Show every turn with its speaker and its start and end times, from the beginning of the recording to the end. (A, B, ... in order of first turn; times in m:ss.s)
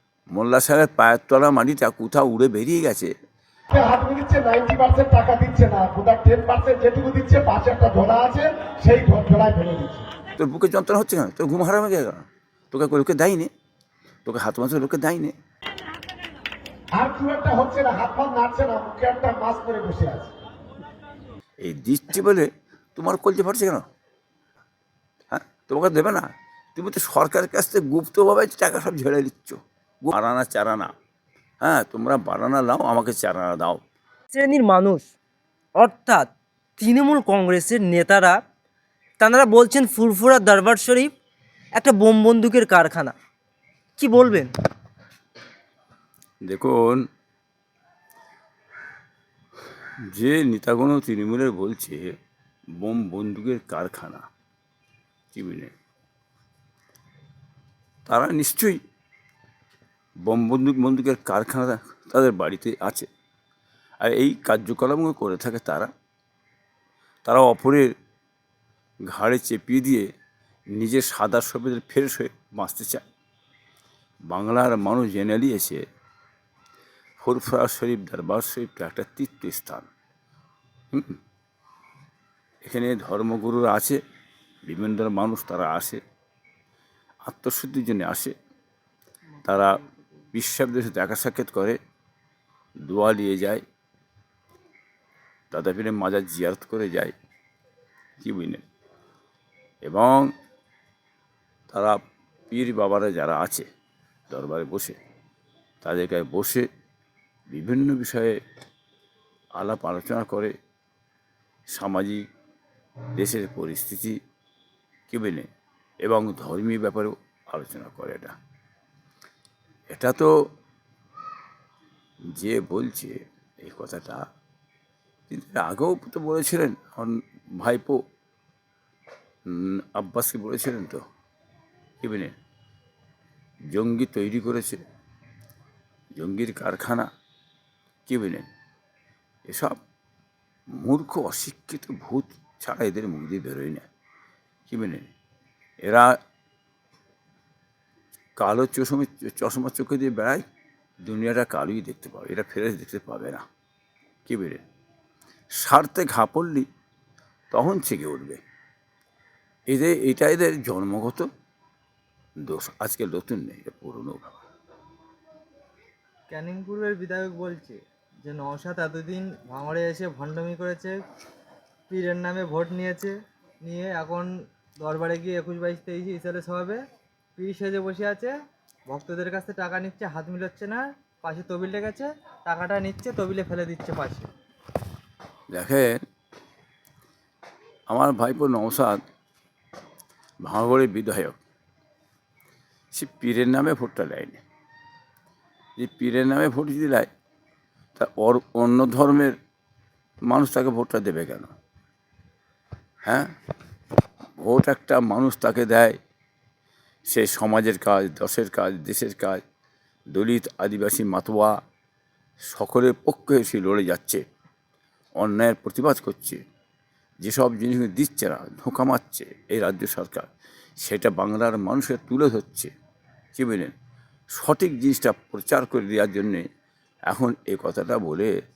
0:00.3-0:03.1 A
0:03.7-0:10.1 B
0:10.4-0:13.5 A
0:14.2-0:15.3 A
0:17.0-0:20.3 B
0:21.6-0:23.9 A
0:25.3-0:30.9 A
0:31.6-0:33.8 A
0:34.3-0:35.1 C
0:35.8-0:38.4 C
0:39.2-0:41.1 C
0:41.8-0:43.2 C
0:44.0-0:44.5 C
0:46.4-0:47.1 A
0:50.1-0:52.2 A
0:52.8-0:54.3 A
0:55.3-0:55.7 A
0:58.1-0:58.8 A
1:00.3-1:03.1 A
1:04.0-1:05.9 A
1:07.2-1:07.9 A
1:09.1-1:10.1 A
1:10.7-1:13.0 A
1:14.3-1:15.8 A
1:17.2-1:19.9 A
1:22.6-1:24.0 A
1:24.7-1:26.0 A
1:27.3-1:28.4 A
1:29.4-1:29.8 A
1:30.3-1:31.8 A
1:32.9-1:33.6 A
1:35.5-1:37.2 A
1:38.2-1:38.6 A
1:39.9-1:40.3 A
1:41.7-1:43.7 A
1:44.3-1:45.0 A
1:45.8-1:46.7 A
1:47.5-1:48.4 A
1:49.6-1:50.5 A
1:51.8-1:52.3 A
1:53.2-1:54.2 A
1:55.1-1:55.5 A
1:56.0-1:58.4 A
1:59.9-2:00.3 A
2:02.3-2:04.3 A
2:05.3-2:08.0 A
2:09.5-2:11.0 A
2:12.0-2:12.3 A
2:13.7-2:14.8 A
2:16.2-2:17.1 A
2:18.1-2:18.5 A
2:19.5-2:19.8 A
2:20.7-2:23.8 A
2:24.7-2:25.1 A
2:25.8-2:26.2 A
2:28.4-2:30.4 A
2:31.1-2:33.4 A
2:34.3-2:34.6 A
2:35.6-2:36.7 A
2:37.5-2:38.4 A
2:39.7-2:41.3 A
2:42.4-2:44.4 A
2:46.3-2:51.0 D
2:51.9-2:54.3 D
2:54.8-2:56.8 D
2:57.4-2:58.3 D
2:58.9-3:04.3 D
3:05.5-3:06.0 A
3:07.9-3:09.0 A
3:10.4-3:11.4 A
3:12.9-3:14.4 A
3:15.8-3:17.1 A
3:18.0-3:19.4 A
3:20.3-3:21.5 A
3:23.0-3:23.3 A
3:24.4-3:26.0 A
3:27.1-3:29.4 A
3:30.1-3:31.6 A
3:32.5-3:34.2 A
3:35.2-3:36.4 A
3:37.2-3:40.3 A
3:40.8-3:42.7 A
3:43.4-3:43.7 A
3:44.3-3:46.4 A
3:47.1-3:48.3 A